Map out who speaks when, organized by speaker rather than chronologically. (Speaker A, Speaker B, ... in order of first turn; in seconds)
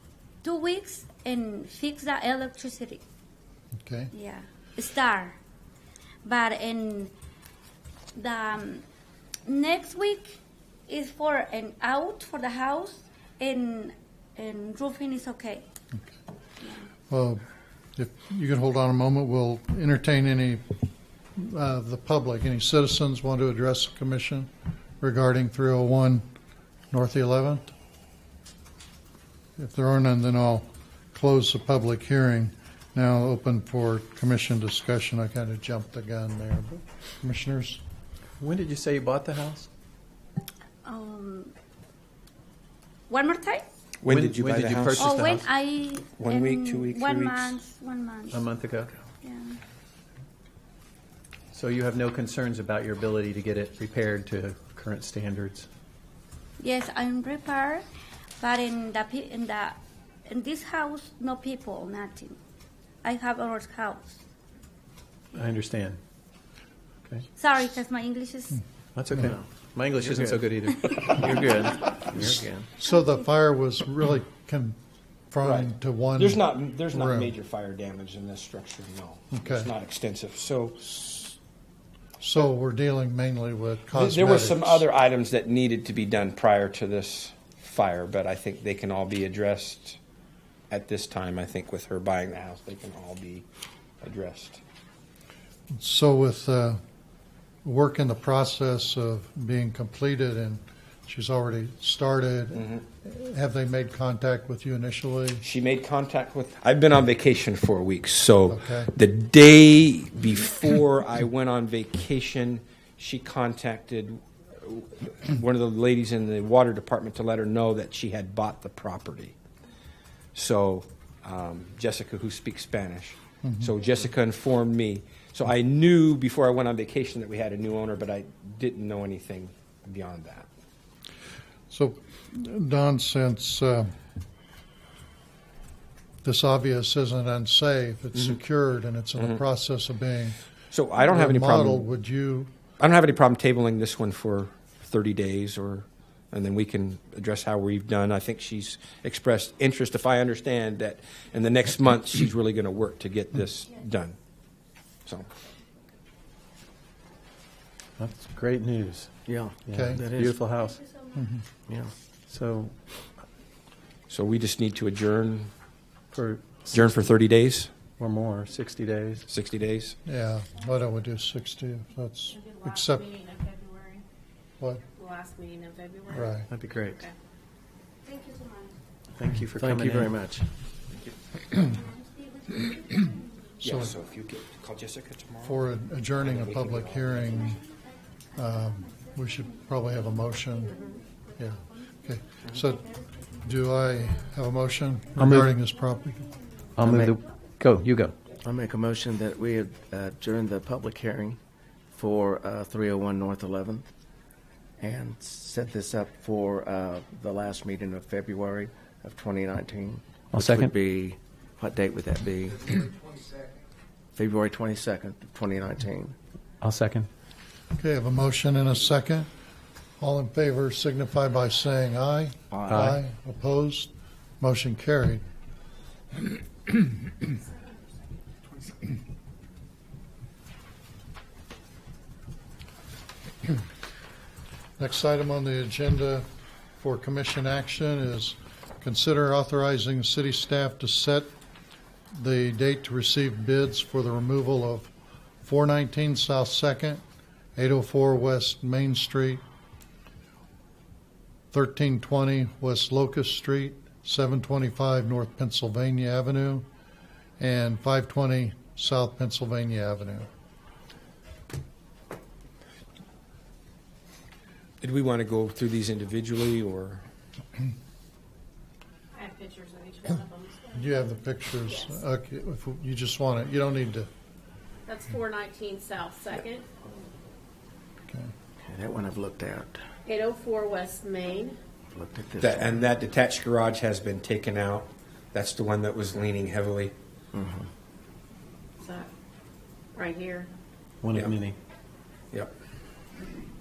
Speaker A: 0.4-3.0, 4.1-5.3, 6.2-7.1, 8.1-8.8, 9.5-15.6, 40.8-41.5, 43.1-43.6, 45.0-48.4, 49.2-49.6, 56.6-57.8, 58.4-62.4, 63.0-64.2, 67.4-68.6, 178.3-178.5
Speaker B: 3.8-4.1, 17.1-17.4, 17.9-20.6, 21.4-26.2, 26.9-27.7, 29.6-37.8, 72.8-74.8, 75.3-77.3, 79.3-79.7, 82.2-84.8, 95.7-96.8, 97.6-105.4, 108.5-108.9, 123.4-123.7, 131.7-133.9, 136.2-140.4, 141.0-142.5, 159.7-160.0, 161.1-161.4, 170.0-173.0, 176.1-176.5, 183.6-183.9, 185.4-187.6, 188.3-190.8, 191.4-196.3, 217.8-219.3, 220.0-225.2, 234.8-236.2, 236.8-241.3, 242.1-244.9, 245.4-247.0, 247.6-249.4, 251.5-256.6, 257.4-260.3, 270.7-274.1
Speaker C: 38.4-39.7, 44.0-45.5, 48.3-49.0, 51.5-55.7, 65.3-66.0, 68.9-72.4, 158.0-160.8, 162.3-163.0, 166.1-167.0, 168.0-169.2, 176.5-177.0, 179.1-180.2, 195.2-195.5, 196.8-198.2, 210.3-210.7, 216.6-217.1, 222.7-223.0, 291.0-291.6
Speaker D: 44.0-45.1, 46.2-47.5, 75.4-81.3, 83.9-90.0, 90.7-93.4, 94.0-94.6, 102.5-102.8, 105.4-119.3, 120.3-130.5, 140.7-141.8, 142.8-154.2, 164.1-165.5, 166.7-167.7, 169.3-169.9, 180.9-181.6, 183.6-185.6, 186.2-187.3, 264.8-267.0, 282.4-286.9
Speaker E: 69.2-69.5, 70.1-70.3, 72.1-72.7, 159.2-160.3, 161.7-161.9, 179.6-180.4, 196.8-197.1, 198.4-201.4, 201.9-203.9, 204.8-212.9, 214.1-216.1, 222.5-222.9, 278.6-279.8, 281.9-282.8, 287.3-287.6
Speaker F: 172.3-174.0, 174.9-176.3, 176.8-177.1, 190.7-191.0, 269.1-271.1, 271.7-272.0, 274.9-276.7, 280.1-281.6, 288.8-289.1, 289.9-290.5